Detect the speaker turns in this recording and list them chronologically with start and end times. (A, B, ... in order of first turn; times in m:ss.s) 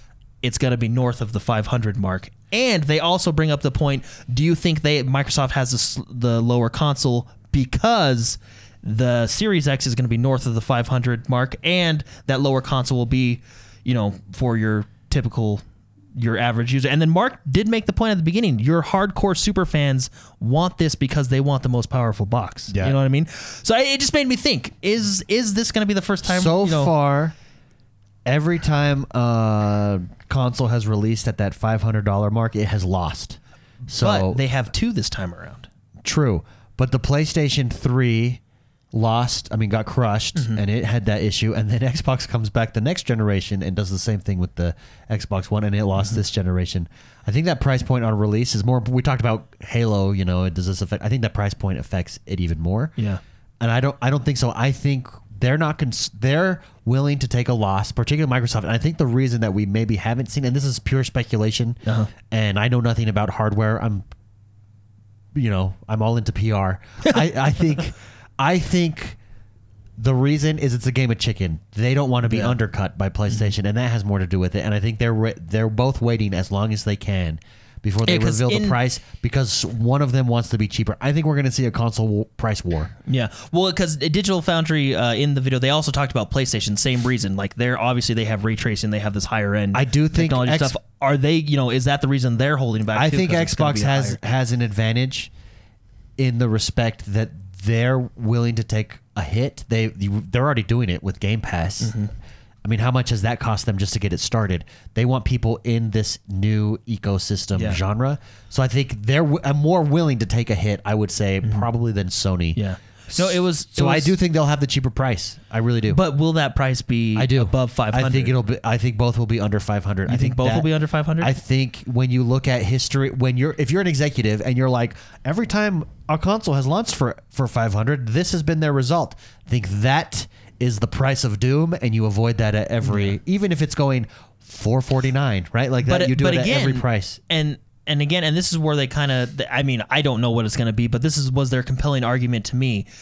0:00.4-0:15.6 A
0:16.2-0:26.9 A
0:22.7-0:23.0 B
0:26.2-0:27.3 B
0:28.2-0:34.4 B
0:33.9-0:35.7 A
0:36.0-0:38.4 B
0:38.9-0:53.0 B
0:53.6-1:04.0 B
1:05.3-1:09.2 B
1:10.0-1:22.9 B
1:12.3-1:12.6 A
1:18.0-1:18.8 A
1:23.1-1:34.2 A
1:29.7-1:30.8 B
1:32.9-1:35.3 B
1:36.2-1:42.0 B
1:41.8-1:42.1 A
1:42.6-1:52.6 B
1:47.6-1:47.8 A
1:52.6-1:54.2 A
1:53.1-1:56.0 B
1:55.9-1:58.4 A
1:57.2-2:17.2 B
2:00.1-2:01.3 A
2:12.8-2:13.2 A
2:15.8-2:22.9 A